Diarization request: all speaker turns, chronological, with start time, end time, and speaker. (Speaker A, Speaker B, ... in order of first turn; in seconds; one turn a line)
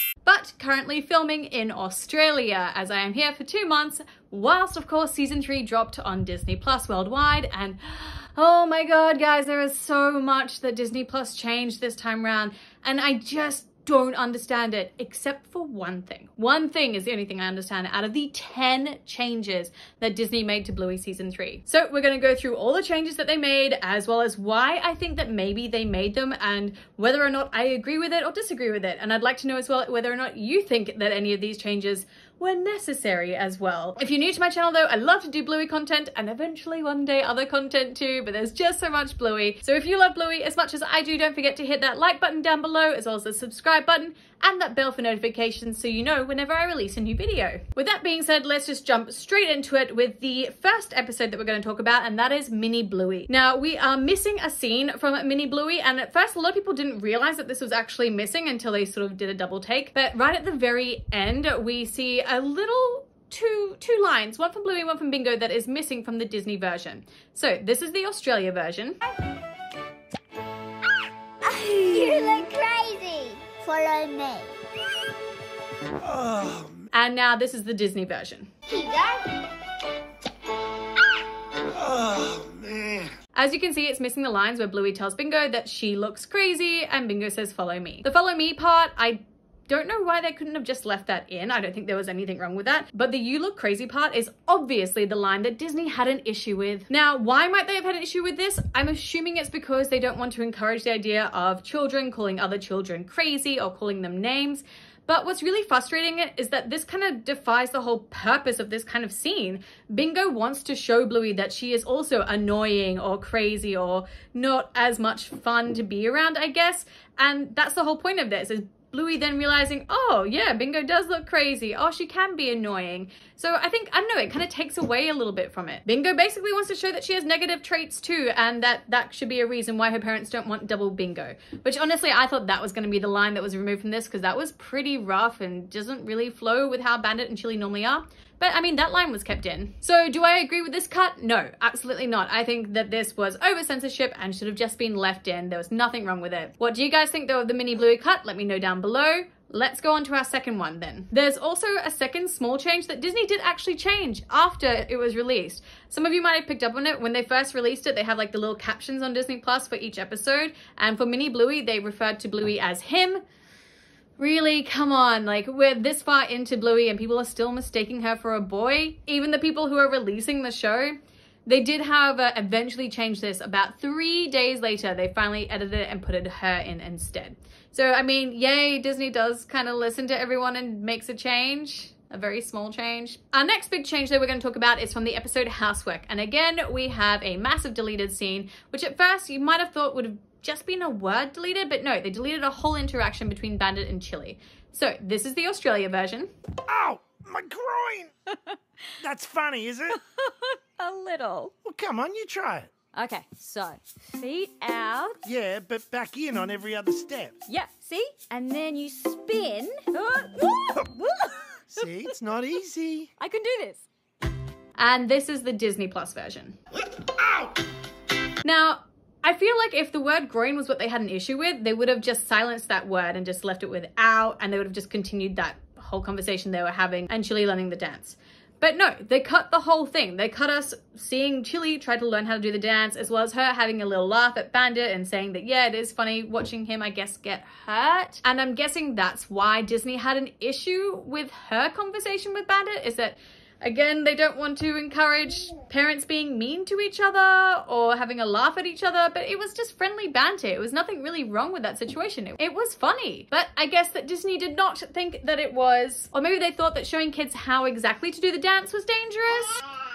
Speaker A: 0.2-69.0
Speaker B: 71.4-74.5
Speaker C: 76.0-76.8
Speaker A: 76.9-78.5
Speaker B: 78.7-79.5
Speaker C: 81.7-83.1
Speaker A: 83.3-163.2
Speaker A: 164.2-196.3
Speaker C: 196.7-198.1
Speaker C: 199.0-200.0
Speaker D: 200.2-201.5
Speaker C: 201.6-202.7
Speaker D: 202.9-205.2
Speaker C: 205.2-207.4
Speaker D: 207.5-212.1
Speaker C: 211.7-213.1
Speaker D: 213.2-213.8
Speaker A: 214.8-216.6
Speaker A: 218.4-259.6